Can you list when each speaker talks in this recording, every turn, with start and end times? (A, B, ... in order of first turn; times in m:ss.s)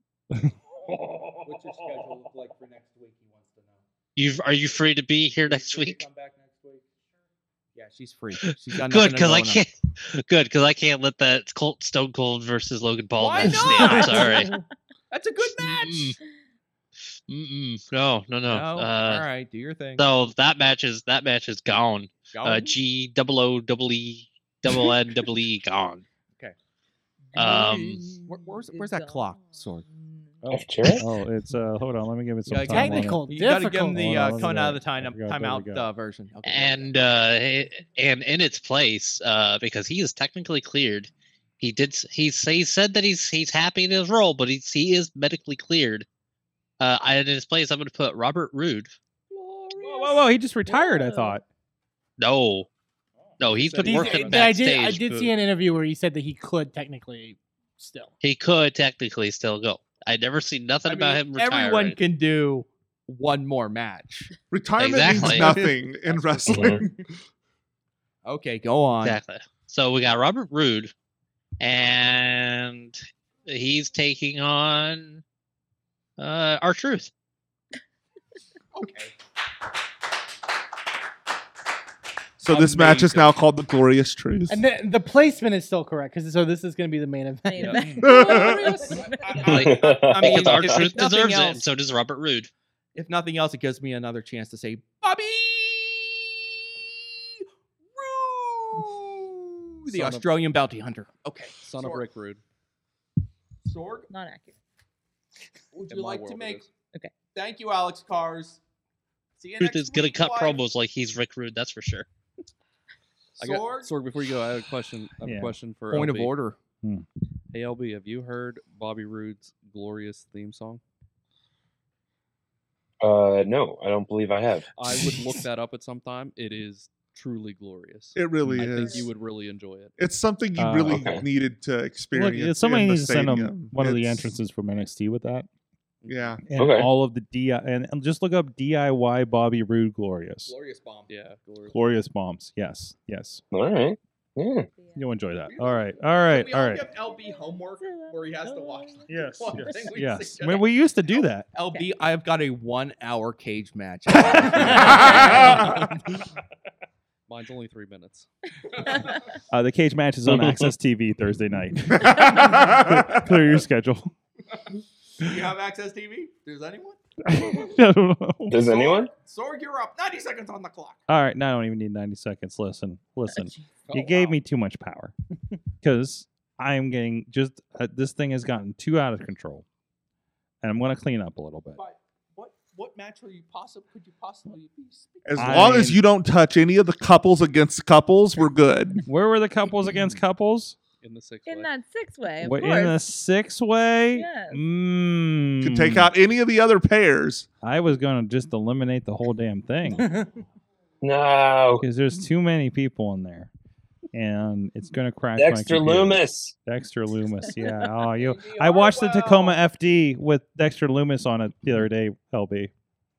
0:00.4-0:02.1 A
0:01.4-0:03.8 B
0:04.2-0:06.0 C
0:05.4-0:06.8 B
0:07.7-0:09.6 B
0:08.4-0:14.6 C
0:13.1-0:14.5 B
0:15.1-0:16.1 B
0:15.5-0:16.2 C
0:17.3-0:19.3 C
0:18.5-0:20.1 B
0:20.0-0:26.0 C
0:22.3-0:22.8 B
0:27.3-0:28.2 C
0:27.3-0:29.8 B
0:28.1-0:30.4 D
0:30.4-0:33.3 A
0:30.5-0:31.1 E
0:32.5-0:37.0 B
0:32.7-0:34.3 F
0:33.8-0:35.9 A
0:36.4-0:46.0 C
0:46.8-0:48.9 C
0:49.3-0:50.2 G
0:49.8-0:51.4 A
0:50.7-0:51.4 D
0:52.2-0:52.7 C
0:53.4-0:55.3 C
0:53.5-0:54.6 G
0:53.8-0:58.1 F
0:58.2-1:02.0 C
1:00.8-1:04.3 B
1:04.5-1:07.0 H
1:04.8-1:05.7 C
1:05.0-1:06.8 B
1:06.5-1:06.8 E
1:08.2-1:09.2 B
1:09.0-1:10.9 C
1:11.6-1:15.2 C
1:16.2-1:17.1 C
1:18.7-1:19.1 B
1:22.4-1:24.6 H
1:22.5-1:23.3 G
1:24.5-1:27.9 F
1:27.5-1:29.4 D
1:28.0-1:28.8 H
1:28.1-1:31.6 B
1:29.4-1:32.5 C
1:29.5-1:30.8 E
1:32.9-1:36.4 B
1:37.9-1:42.0 B
1:39.9-1:40.3 G
1:41.6-1:42.4 G
1:43.6-1:44.1 B
1:44.1-1:44.5 D
1:45.7-1:46.7 B
1:45.9-1:46.7 G
1:47.3-1:48.6 B
1:49.4-1:50.7 B
1:49.6-1:52.0 C
1:53.4-1:53.9 B
1:53.4-1:56.3 G
1:55.2-1:55.5 A
1:55.9-1:56.6 B
1:57.5-2:00.8 G
2:03.0-2:04.7 E
2:04.8-2:09.9 G
2:08.1-2:09.1 H
2:10.0-2:14.2 H
2:10.6-2:11.1 A
2:10.9-2:11.2 E
2:12.1-2:15.5 A
2:16.0-2:16.4 G
2:16.1-2:16.4 H
2:16.5-2:20.5 A
2:16.6-2:16.9 E
2:20.4-2:21.1 B
2:21.1-2:21.7 G
2:21.7-2:23.4 A
2:23.5-2:24.7 E
2:24.7-2:25.2 D
2:25.0-2:26.9 A
2:25.5-2:36.2 B
2:27.0-2:29.9 D
2:29.1-2:31.5 A
2:31.6-2:31.9 D
2:34.2-2:35.6 A
2:34.9-2:35.6 D
2:37.3-2:38.3 G
2:38.9-2:39.2 D
2:39.5-2:44.1 A
2:40.3-2:40.7 E
2:42.0-2:43.2 H
2:42.2-2:42.6 D
2:45.2-2:47.0 B
2:47.2-2:48.6 A
2:48.5-2:49.1 E
2:48.5-2:51.0 B
2:51.1-2:55.1 A
2:53.3-2:53.6 D
2:53.8-2:54.4 B
2:55.8-2:59.6 A
3:00.6-3:01.8 A
3:01.7-3:05.6 B
3:05.2-3:09.0 H
3:05.4-3:06.0 A
3:09.0-3:10.8 A
3:11.0-3:11.7 G
3:11.4-3:13.0 D
3:12.4-3:16.1 A
3:14.1-3:14.6 D
3:15.6-3:17.5 H
3:17.6-3:20.1 A
3:21.0-3:21.8 E
3:21.8-3:23.5 A
3:24.1-3:32.7 A
3:25.4-3:26.5 E
3:28.2-3:29.6 B